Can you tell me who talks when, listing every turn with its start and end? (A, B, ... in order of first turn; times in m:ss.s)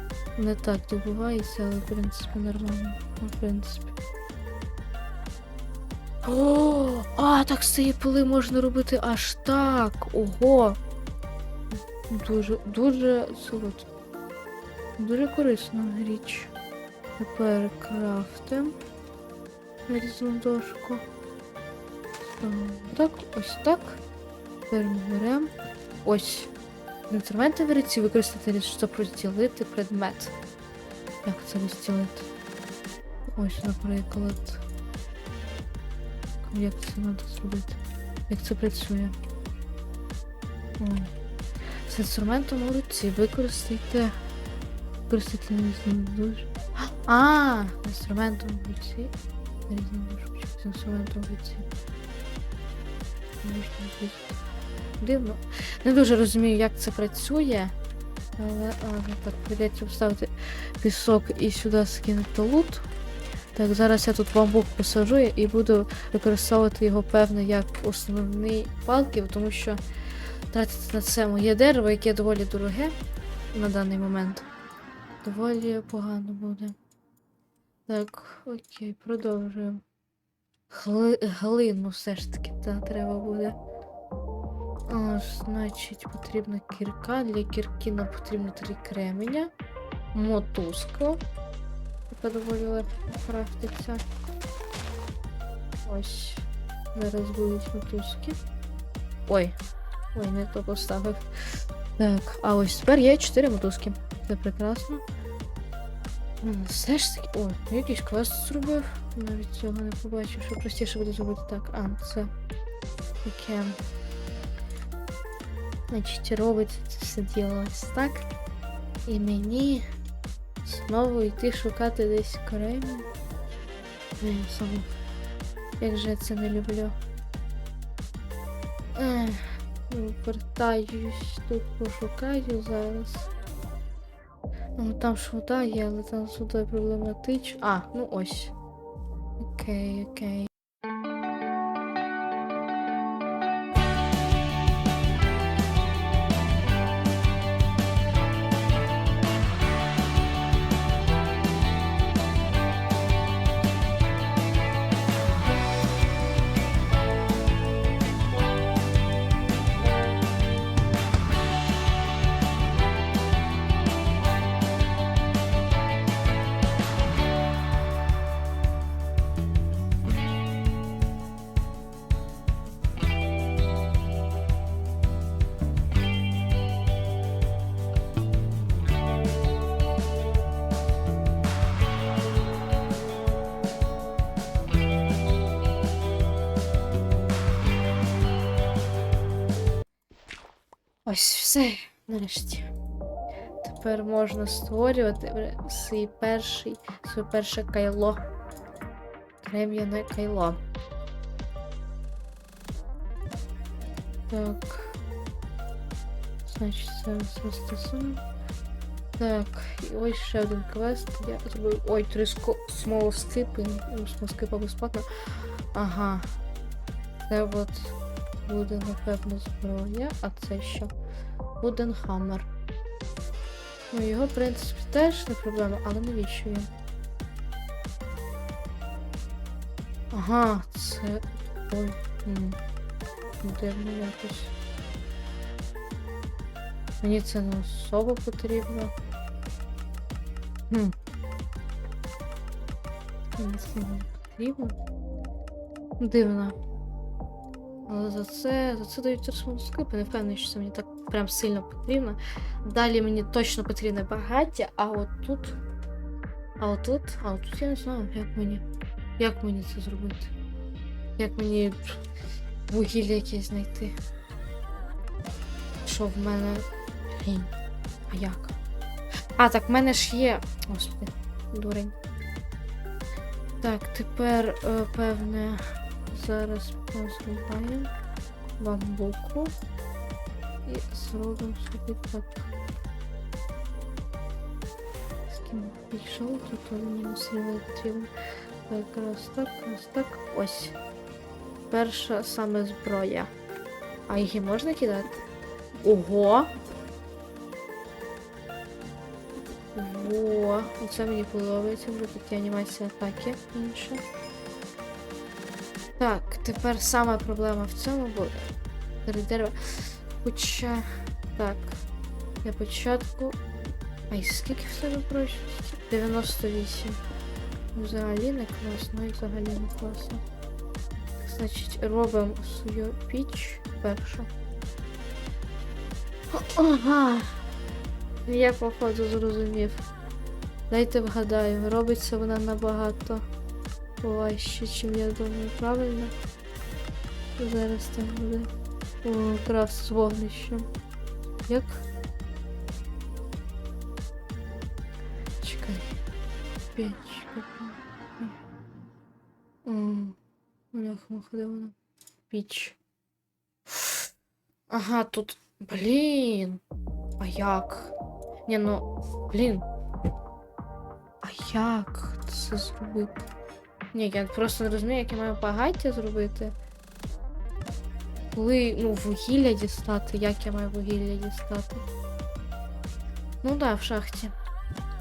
0:00.4-0:03.9 A
0:06.2-0:10.8 A
0:12.1-0:13.9 A
0:15.0-0:16.5 A
0:17.2-0:18.8 A
0:19.9-0:21.0 A
0:22.2-0:24.0 A
0:24.7-0:25.5 A
0:26.0-0:26.5 A
0:27.1-0:30.3 A
0:31.2-0:32.3 A
0:33.3-0:34.6 A
0:36.4-0:39.1 A
0:40.8-0:41.1 A
0:41.8-0:44.2 A
0:45.1-0:49.1 A
0:49.7-0:51.7 A
0:53.4-0:54.4 A
0:55.0-0:57.7 A
0:58.4-1:02.9 A
1:03.5-1:09.8 A
1:10.5-1:12.9 A
1:13.5-1:14.4 A
1:15.2-1:16.8 A
1:17.9-1:19.8 A
1:20.7-1:23.6 A
1:24.9-1:29.5 A
1:30.1-1:31.2 A
1:32.1-1:34.0 A
1:35.8-1:38.4 A
1:39.3-1:39.6 A
1:40.1-1:45.0 A
1:46.4-1:52.3 A
1:53.2-1:53.8 A
1:55.9-1:58.2 A
1:59.0-1:59.8 A
2:00.6-2:03.1 A
2:04.2-2:04.9 A
2:05.8-2:07.0 A
2:08.9-2:13.3 A
2:14.8-2:18.5 A
2:19.4-2:20.5 A
3:11.0-3:12.7 A
3:13.6-3:18.2 A
3:19.4-3:20.6 A
3:24.3-3:25.0 A
3:26.4-3:28.2 A
3:29.2-3:36.3 A
3:37.2-3:40.9 A
3:41.6-3:42.5 A
3:43.9-3:46.7 A
3:50.1-3:52.6 A
3:53.4-3:54.5 A
3:57.0-3:58.9 A
4:00.7-4:00.9 A
4:03.4-4:04.8 A
4:06.0-4:06.6 A
4:07.8-4:15.6 A
4:16.6-4:18.6 A
4:19.2-4:20.3 A
4:21.2-4:22.0 A
4:22.7-4:24.0 A
4:25.8-4:27.5 A
4:28.1-4:28.5 A
4:29.4-4:31.9 A
4:33.6-4:37.9 A
4:38.6-4:39.5 A
4:40.6-4:42.5 A
4:45.3-4:48.1 A
4:48.7-4:50.8 A
4:51.7-4:53.3 A
4:54.1-4:55.2 A
4:55.8-4:56.5 A
4:59.7-5:04.0 A
5:06.0-5:08.4 A
5:09.0-5:11.8 A
5:12.4-5:13.4 A
5:14.1-5:17.0 A
5:17.7-5:20.2 A
5:21.2-5:24.3 A
5:26.3-5:27.4 A
5:28.2-5:29.8 A
5:30.7-5:33.2 A
5:34.0-5:36.1 A
5:37.4-5:38.5 A
5:39.0-5:40.7 A
5:41.4-5:41.8 A
5:45.4-5:46.0 A
5:46.7-5:48.4 A
5:49.6-5:50.2 A
5:50.7-5:51.7 A
5:52.3-5:52.8 A
5:53.7-5:54.0 A
5:54.7-5:56.6 A
5:57.2-5:57.9 A
5:58.4-5:59.6 A
6:01.2-6:03.2 A
6:03.9-6:06.6 A
6:08.3-6:11.8 A
6:13.4-6:14.3 A